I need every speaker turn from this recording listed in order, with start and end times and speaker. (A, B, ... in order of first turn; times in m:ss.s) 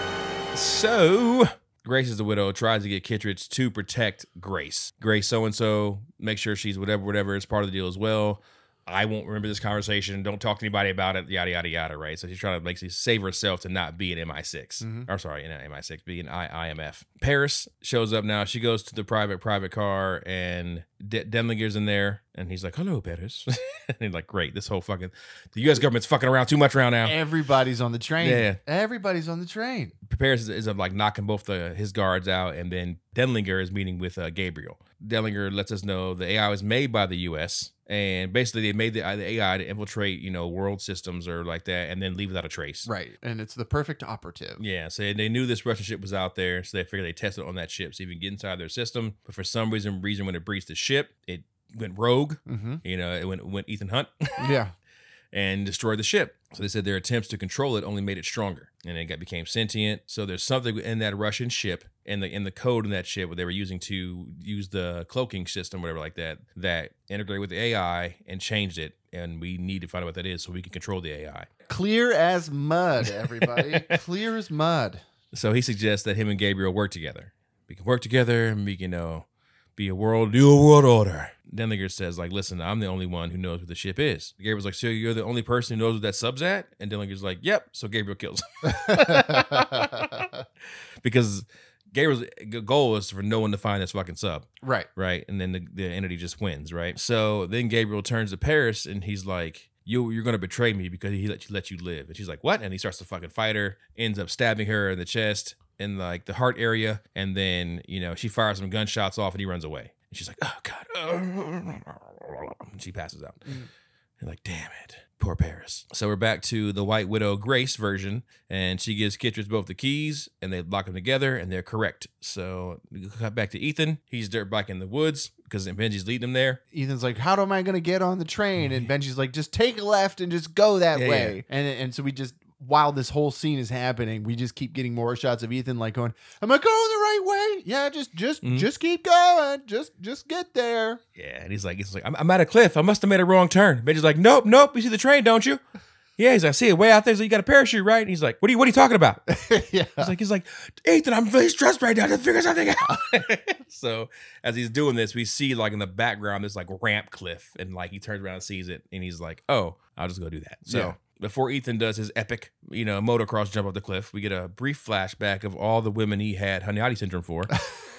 0:00.5-0:27.2 A
0:14.8-0:15.1 B
0:27.0-0:29.9 B
0:28.2-0:28.6 A
0:30.0-0:42.9 A
0:42.8-0:44.6 B
0:44.6-0:54.6 A
0:52.4-0:52.8 B
0:54.4-0:54.7 B
0:55.3-1:11.5 A
1:11.7-1:15.0 B
1:13.2-1:13.9 A
1:15.3-1:30.3 A
1:28.7-1:30.3 B
1:31.0-1:53.5 A
1:34.6-1:34.9 B
1:54.2-2:06.6 A
2:06.7-2:21.0 B
2:08.6-2:08.8 A
2:10.9-2:11.4 A
2:21.2-2:25.6 A
2:26.2-2:29.2 A
2:29.3-2:30.1 B
2:30.0-2:47.5 A
2:40.6-2:41.0 B